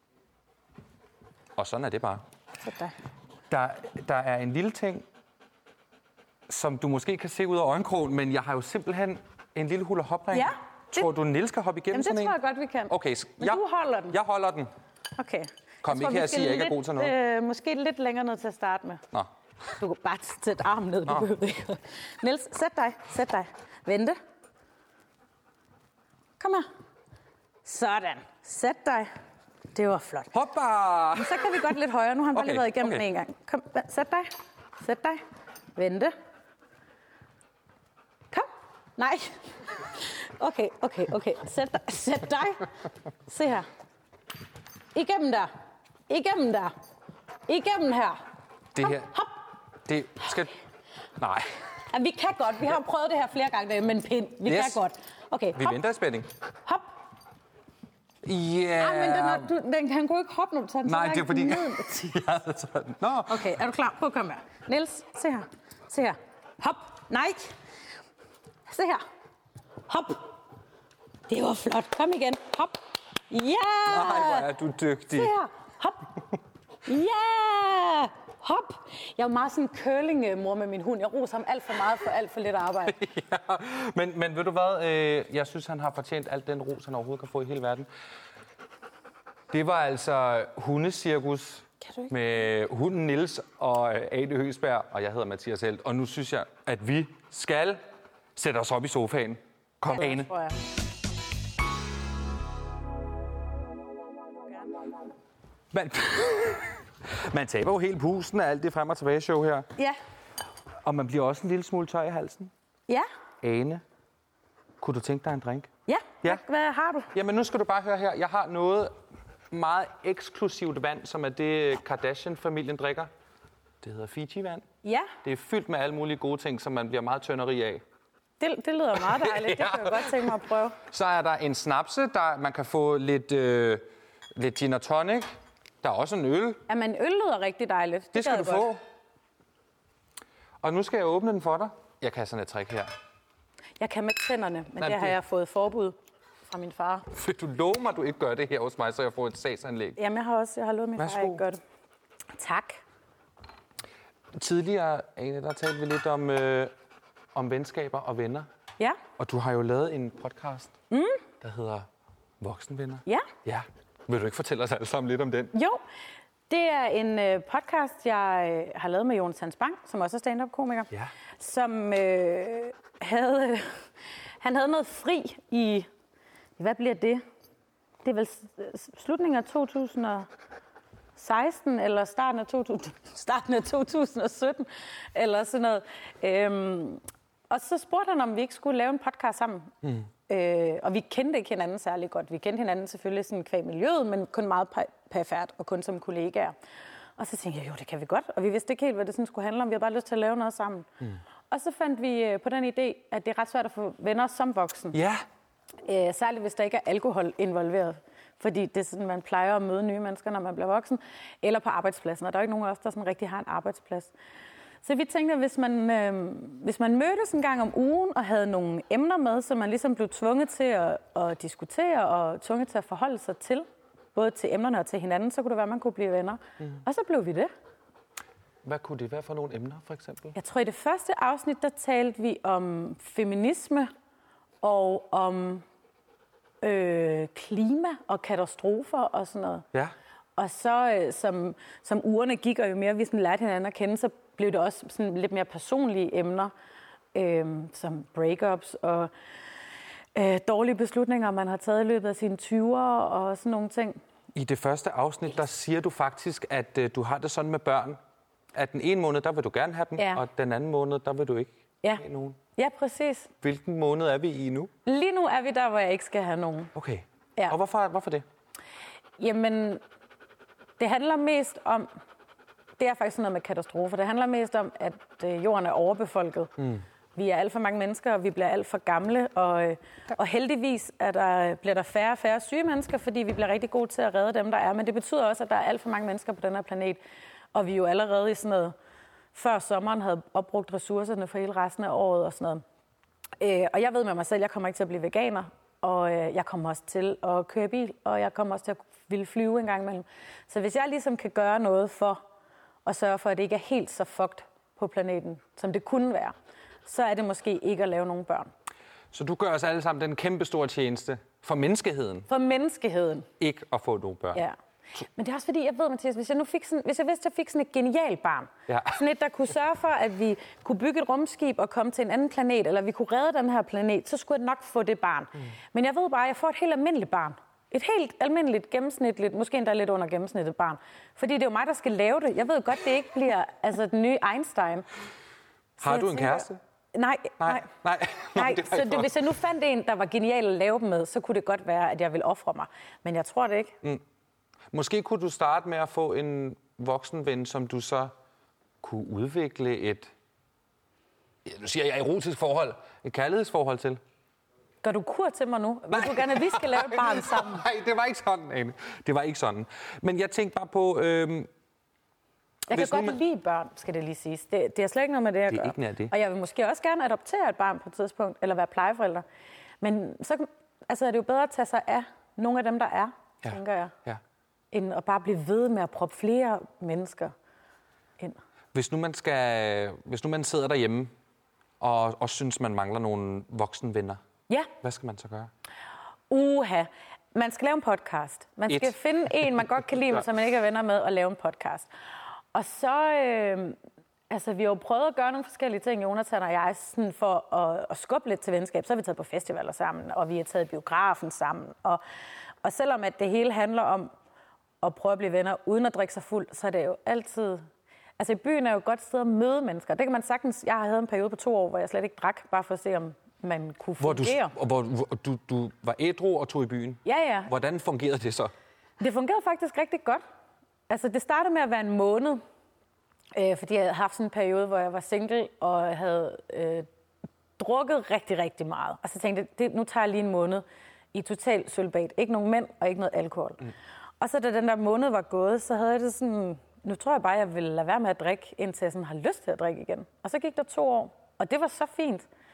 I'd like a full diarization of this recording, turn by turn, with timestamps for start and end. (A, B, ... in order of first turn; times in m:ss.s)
0:01.6-0:02.2 A
0:02.6-0:02.9 B
0:03.5-0:05.0 A
0:06.5-0:12.4 A
0:10.3-0:11.1 B
0:11.9-0:14.2 B
0:12.9-0:14.7 A
0:15.2-0:19.0 B
0:15.8-0:17.1 A
0:19.8-0:24.2 B
0:26.4-0:26.7 B
0:27.6-0:29.1 B
0:29.7-0:30.3 B
0:30.3-0:31.5 A
0:31.1-0:34.3 B
0:32.3-0:33.0 A
0:34.8-0:35.2 B
0:35.8-0:36.1 B
0:38.3-0:42.7 B
0:43.3-0:43.7 B
0:44.9-0:45.5 B
0:46.1-0:46.7 B
0:47.5-0:48.2 B
0:48.8-0:49.1 A
0:48.8-0:49.4 B
0:49.9-0:50.5 A
0:51.2-0:51.5 A
0:51.9-0:55.8 B
0:54.4-0:54.8 A
0:55.5-0:56.3 A
0:58.2-0:59.5 A
0:58.8-1:02.1 B
1:00.9-1:03.5 A
1:03.3-1:07.5 B
1:08.7-1:09.0 B
1:09.9-1:10.4 B
1:11.3-1:12.8 B
1:13.3-1:14.5 B
1:13.9-1:15.3 A
1:15.1-1:16.1 B
1:16.8-1:23.0 B
1:22.9-1:27.9 A
1:29.5-1:37.8 A
1:38.4-1:40.3 A
1:39.9-1:40.6 B
1:45.7-1:49.7 A
1:50.8-1:52.5 A
1:53.4-1:53.8 A
1:54.8-1:55.7 A
1:55.9-1:57.1 B
1:57.1-1:59.0 A
1:59.5-2:03.1 A
2:03.8-2:04.6 A
2:04.8-2:05.1 B
2:05.2-2:07.8 A
2:08.4-2:10.8 B
2:09.0-2:13.8 A
2:14.4-2:15.3 A
2:15.8-2:16.6 A
2:16.7-2:18.7 B
2:18.1-2:18.8 A
2:20.6-2:22.9 A
2:23.8-2:27.0 B
2:24.8-2:25.1 A
2:27.1-2:30.0 A
2:30.0-2:31.6 B
2:31.0-2:31.4 A
2:32.4-2:32.8 B
2:34.3-2:36.7 A
2:37.4-2:38.5 A
2:39.2-2:40.7 A
2:40.9-2:41.2 B
2:41.4-2:41.9 A
2:42.4-2:45.5 A
2:45.5-2:45.8 B
2:46.5-2:53.8 B
2:54.4-2:55.9 B
2:56.6-2:57.2 B
2:58.0-3:00.3 B
3:01.2-3:09.7 B
3:10.3-3:16.5 B
3:17.2-3:20.9 B
3:21.5-3:25.0 B
3:24.9-3:25.2 A
3:25.8-3:34.1 B
3:34.8-3:47.5 B
3:48.6-3:50.4 A
3:50.4-3:53.9 B
3:54.6-3:55.6 B
3:56.6-3:59.6 B
4:00.4-4:06.5 B
4:07.1-4:09.1 B
4:10.1-4:14.0 B
4:14.3-4:18.0 A
4:18.5-4:22.4 A
4:20.0-4:20.2 B
4:22.6-4:23.3 B
4:23.4-4:24.7 A
4:24.9-4:26.7 B
4:26.8-4:28.2 A
4:29.2-4:29.8 B
4:30.8-4:31.9 B
4:32.8-4:36.5 B
4:37.2-4:47.0 B
4:47.5-4:48.8 B
4:49.3-4:52.6 B
4:53.4-5:02.2 B
5:02.8-5:06.3 B
5:06.9-5:08.5 B
5:09.1-5:12.3 A
5:12.3-5:13.3 B
5:13.4-5:14.4 A
5:14.3-5:34.8 B
5:18.7-5:19.0 A
5:35.8-5:37.7 B
5:35.8-5:36.6 A
5:37.4-5:39.2 A
5:38.4-5:43.8 B
5:44.7-5:48.1 A
5:48.8-5:50.1 A
5:51.4-5:54.0 A
5:54.8-5:57.6 B
5:55.9-6:01.5 A
6:02.7-6:03.2 A
6:02.7-6:09.2 B
6:05.5-6:06.1 A
6:09.8-6:13.9 B
6:13.4-6:14.2 A
6:14.7-6:17.3 B
6:18.7-6:21.1 A
6:21.8-6:24.2 A
6:24.8-6:25.5 A
6:26.3-6:31.9 B
6:28.7-6:28.9 A
6:32.5-6:33.8 B
6:34.3-6:42.0 B
6:42.6-6:44.1 B
6:44.8-6:47.6 B
6:48.2-6:54.5 B
6:54.0-6:58.5 A
6:57.0-6:57.5 B
6:59.0-7:00.2 B
7:00.9-7:02.4 B
7:03.3-7:06.9 B
7:07.6-7:13.7 B
7:14.2-7:22.3 B